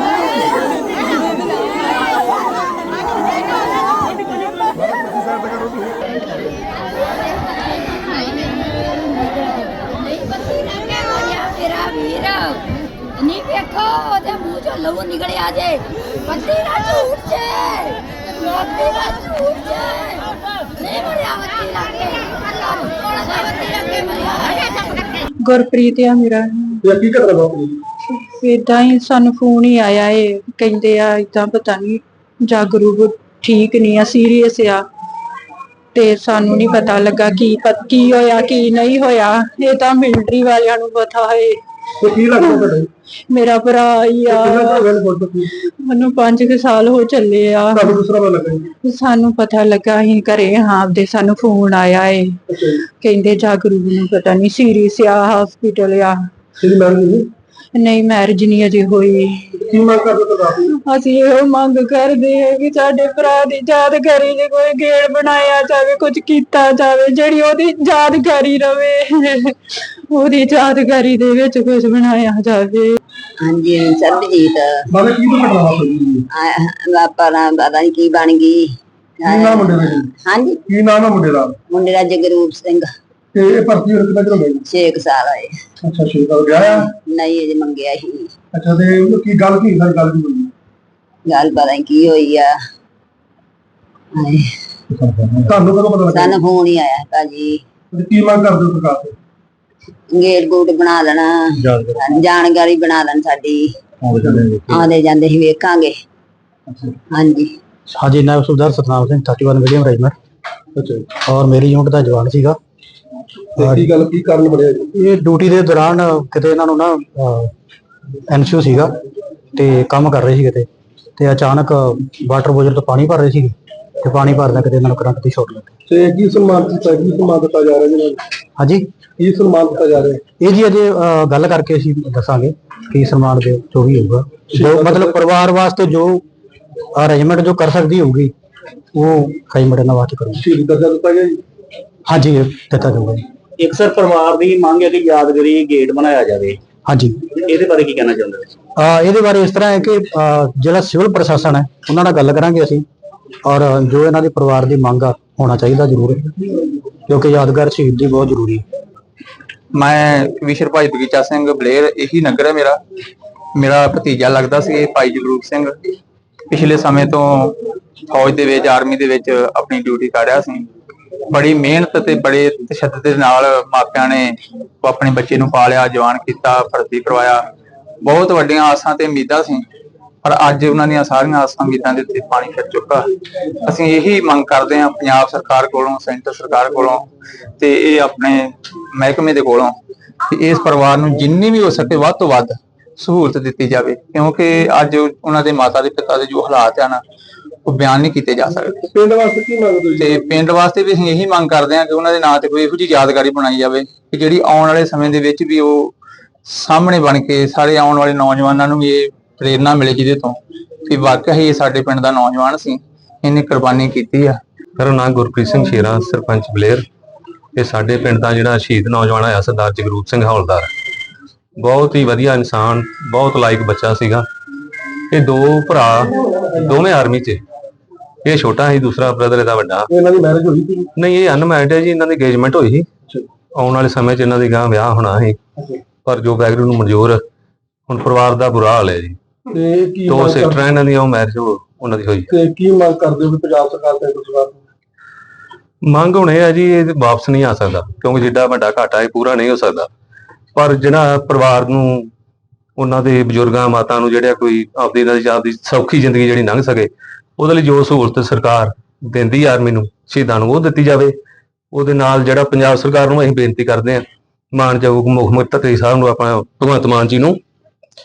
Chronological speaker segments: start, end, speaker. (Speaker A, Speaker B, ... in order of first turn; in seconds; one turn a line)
Speaker A: 7.5-8.7
Speaker A: 10.0-12.7
Speaker A: 13.2-20.3
Speaker A: 20.8-25.0
Speaker B: 25.4-26.8
Speaker C: 26.8-27.8
Speaker B: 28.4-34.8
Speaker B: 35.9-41.6
Speaker C: 42.0-42.9
Speaker B: 42.4-42.7
Speaker B: 43.3-44.9
Speaker C: 44.3-45.5
Speaker B: 45.8-47.9
Speaker C: 47.7-48.7
Speaker B: 48.8-56.2
Speaker C: 52.5-52.8
Speaker C: 56.6-57.3
Speaker B: 57.7-59.6
Speaker C: 59.6-60.7
Speaker B: 60.7-69.5
Speaker B: 70.1-73.0
Speaker D: 73.4-74.7
Speaker C: 74.9-76.2
Speaker D: 76.3-80.6
Speaker C: 79.3-80.1
Speaker C: 80.7-81.6
Speaker D: 81.7-82.9
Speaker C: 83.3-84.6
Speaker D: 84.7-85.5
Speaker C: 85.8-86.9
Speaker D: 86.6-88.3
Speaker C: 88.5-90.5
Speaker D: 91.3-92.5
Speaker D: 94.1-94.5
Speaker E: 95.0-95.3
Speaker C: 95.5-96.3
Speaker D: 96.1-97.6
Speaker C: 97.9-99.1
Speaker D: 100.1-103.7
Speaker D: 104.7-105.9
Speaker D: 107.1-107.5
Speaker F: 107.9-110.1
Speaker C: 110.8-111.1
Speaker F: 111.2-112.6
Speaker C: 113.6-114.9
Speaker F: 113.6-113.9
Speaker F: 115.0-117.5
Speaker F: 118.3-118.9
Speaker F: 119.5-125.7
Speaker C: 125.9-128.2
Speaker F: 128.6-128.9
Speaker C: 129.2-130.2
Speaker F: 130.3-136.2
Speaker C: 134.5-135.2
Speaker F: 136.9-138.3
Speaker F: 138.9-140.4
Speaker C: 140.4-141.4
Speaker F: 142.1-143.2
Speaker E: 143.6-146.6
Speaker F: 146.8-147.2
Speaker E: 147.5-148.5
Speaker F: 148.8-152.8
Speaker F: 153.4-156.3
Speaker F: 157.1-158.6
Speaker G: 159.7-162.8
Speaker G: 163.6-165.7
Speaker G: 166.5-167.6
Speaker G: 168.1-170.7
Speaker G: 171.3-177.4
Speaker G: 178.0-179.6
Speaker G: 180.2-183.1
Speaker G: 183.7-187.0
Speaker G: 187.6-189.7
Speaker G: 190.3-197.0
Speaker G: 197.7-198.8
Speaker C: 198.7-200.2
Speaker G: 200.0-205.9
Speaker G: 206.5-210.3
Speaker G: 210.9-214.4
Speaker H: 214.8-216.8
Speaker H: 217.6-220.7
Speaker H: 221.6-224.2
Speaker H: 225.1-227.4
Speaker C: 226.2-226.6
Speaker H: 228.2-229.9
Speaker C: 229.9-230.9
Speaker H: 230.9-232.9
Speaker H: 233.5-235.4
Speaker H: 236.0-237.2
Speaker H: 237.9-239.2
Speaker C: 239.5-240.7
Speaker H: 240.1-242.3
Speaker C: 242.3-244.6
Speaker H: 245.8-249.9
Speaker H: 250.5-252.1
Speaker H: 252.8-261.1
Speaker H: 261.7-267.4